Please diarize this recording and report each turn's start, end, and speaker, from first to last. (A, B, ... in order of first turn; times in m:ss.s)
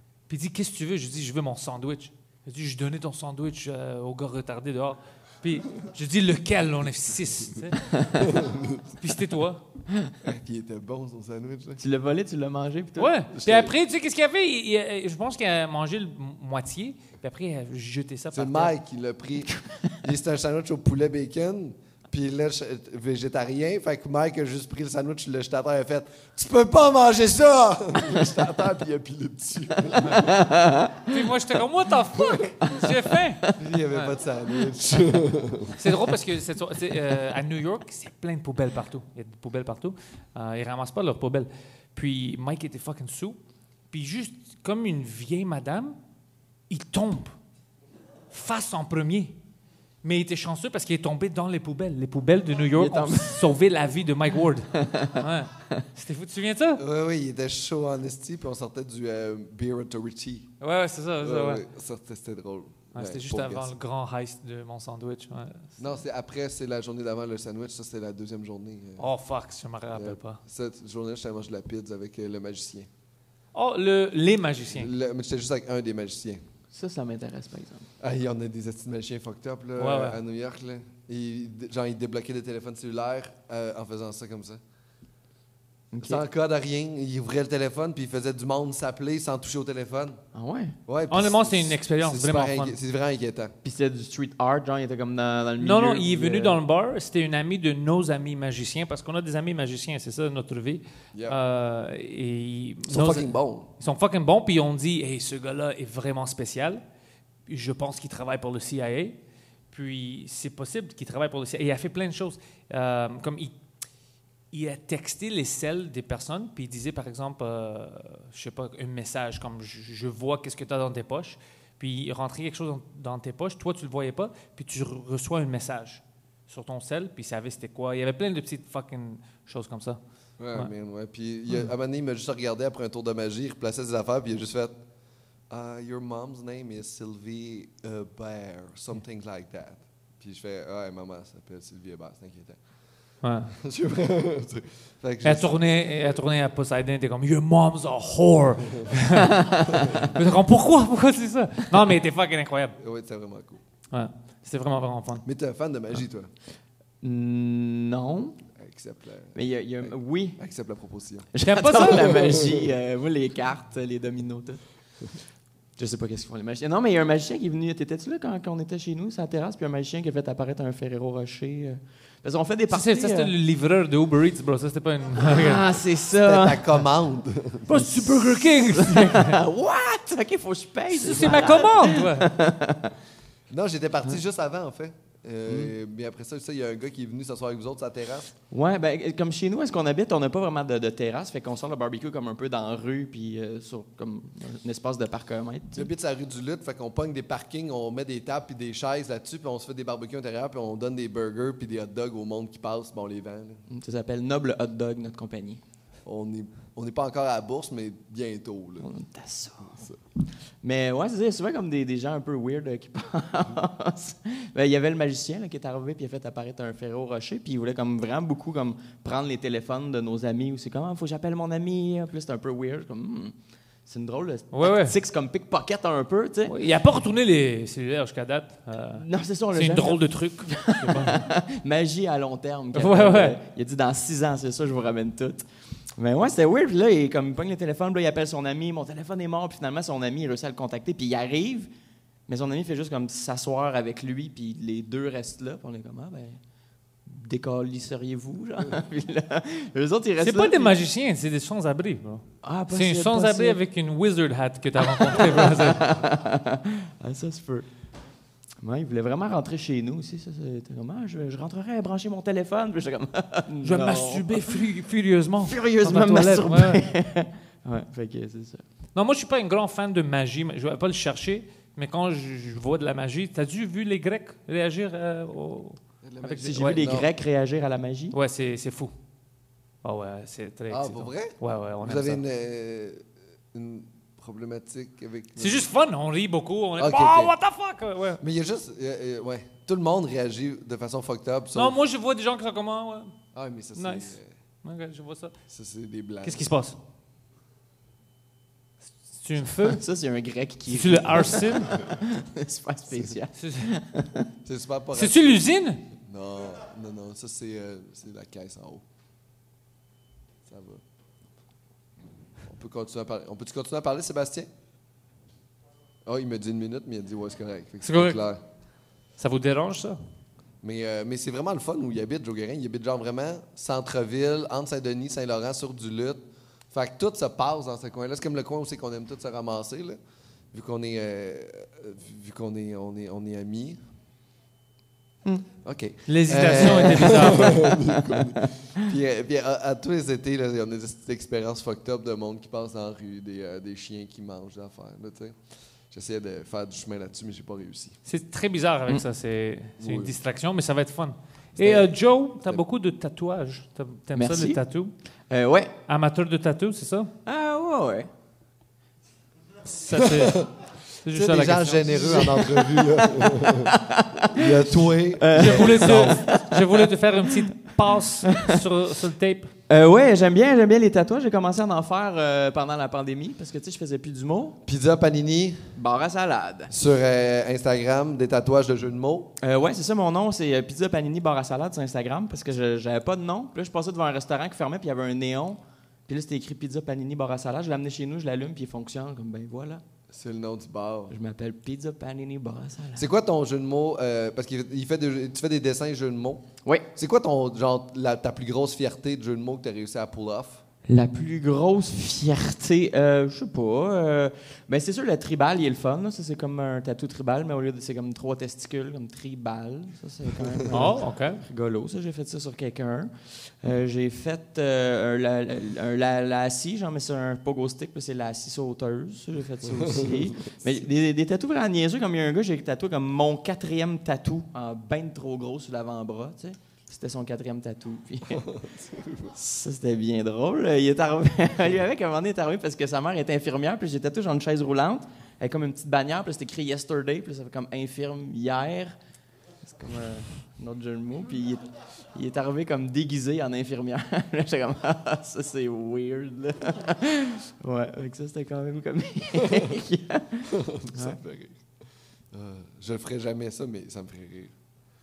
0:00.3-0:08.3 A
0:08.2-0:08.9 B
0:09.0-0:09.6 A
0:10.2-0:11.8 B
0:11.8-0:13.1 C
0:13.0-0:18.7 A
0:13.3-0:13.7 B
0:18.3-0:30.6 B
0:30.1-0:31.1 C
0:31.1-0:34.2 A
0:33.5-0:35.9 B
0:35.7-0:43.4 A
0:43.9-0:46.0 A
0:46.7-0:47.3 A
0:48.3-0:49.4 A
0:50.0-0:56.8 A
0:52.8-0:53.4 C
0:54.7-0:55.8 C
0:56.8-1:00.5 B
1:00.6-1:01.6 A
1:01.2-1:03.7 B
1:02.9-1:05.8 A
1:05.8-1:09.1 B
1:09.0-1:10.4 A
1:09.9-1:12.9 B
1:13.5-1:14.9 A
1:14.7-1:16.4 B
1:16.7-1:17.9 C
1:18.0-1:24.6 B
1:19.8-1:20.2 A
1:25.9-1:26.2 C
1:26.0-1:30.2 B
1:30.3-1:30.8 C
1:30.9-1:33.5 B
1:31.1-1:32.8 A
1:33.6-1:36.6 C
1:35.6-1:46.8 A
1:41.1-1:41.4 B
1:42.9-1:43.7 B
1:47.5-1:49.2 A
1:49.7-1:53.5 A
1:54.5-2:10.0 A
2:10.4-2:14.8 B
2:15.5-2:22.6 B
2:23.2-2:23.5 A
2:23.6-2:26.0 B
2:25.2-2:32.8 A
2:29.2-2:30.1 C
2:29.7-2:30.1 B
2:32.8-2:33.6 B
2:33.9-2:35.2 A
2:35.2-2:36.3 B
2:37.0-2:38.4 C
2:38.6-2:41.3 B
2:39.3-2:40.4 C
2:41.3-2:44.6 C
2:41.4-2:42.3 A
2:45.8-2:53.3 C
2:52.7-2:55.7 A
2:55.2-2:56.8 C
2:56.2-2:58.4 B
2:57.7-2:59.4 A
2:58.7-3:02.9 C
3:00.9-3:02.3 A
3:03.5-3:08.3 B
3:05.5-3:05.7 C
3:08.5-3:15.9 C
3:15.7-3:23.6 B
3:23.7-3:25.6 C
3:26.0-3:28.9 B
3:28.8-3:29.8 C
3:29.7-3:30.0 B
3:30.6-3:43.3 C
3:43.8-3:46.5 C
3:44.5-3:45.0 A
3:46.5-3:51.3 A
3:48.9-4:01.7 C
3:52.7-3:53.4 A
4:02.3-4:06.4 C
4:07.0-4:10.7 C
4:10.2-4:15.9 A
4:12.4-4:13.6 C
4:14.8-4:17.7 C
4:18.6-4:24.6 C
4:23.6-4:26.9 A
4:25.4-4:28.6 C
4:28.9-4:35.8 A
4:36.0-4:37.1 B
4:36.3-4:38.2 C
4:36.4-4:36.9 A
4:38.1-4:38.9 A
4:39.8-4:42.2 A
4:40.7-4:45.7 B
4:45.4-4:48.2 A
4:46.8-4:47.3 B
4:48.2-4:51.8 B
4:51.5-4:53.1 A
4:53.3-4:54.3 B
4:53.8-4:55.3 A
4:55.5-4:56.5 B
4:56.2-4:56.8 A
4:59.1-4:59.8 A
4:59.6-5:04.3 C
5:00.7-5:01.8 A
5:03.4-5:03.7 A
5:04.4-5:05.4 B
5:04.9-5:05.9 A
5:06.0-5:08.8 B
5:10.4-5:10.8 B
5:12.4-5:14.5 B
5:16.0-5:18.4 B
5:17.8-5:18.2 A
5:19.2-5:20.0 A
5:20.6-5:30.0 B
5:30.5-5:33.8 B
5:35.6-5:45.4 B
5:36.1-5:37.7 A
5:37.1-5:38.3 C
5:45.9-5:48.0 B
5:48.0-5:54.9 A
5:49.8-5:50.2 B
5:51.6-5:52.6 B
5:54.1-5:54.6 C
5:55.3-5:55.7 C
5:55.9-5:57.1 A
5:57.2-5:58.1 C
5:59.6-6:02.2 A
5:59.9-6:00.5 B
6:01.1-6:03.8 B
6:02.0-6:07.4 C
6:04.3-6:06.2 B
6:05.3-6:09.5 A
6:08.3-6:08.5 C
6:09.7-6:14.6 C
6:14.6-6:15.8 B
6:15.8-6:16.7 C
6:16.7-6:19.3 B
6:19.4-6:29.8 C
6:30.1-6:31.2 B
6:31.1-6:33.1 C
6:32.9-6:40.6 B
6:40.9-7:08.5 C
6:50.7-6:51.4 A
6:59.7-7:00.8 B
7:08.3-7:09.4 B
7:09.3-7:19.0 C
7:19.6-7:31.2 C
7:30.5-7:31.6 B
7:32.3-7:34.5 B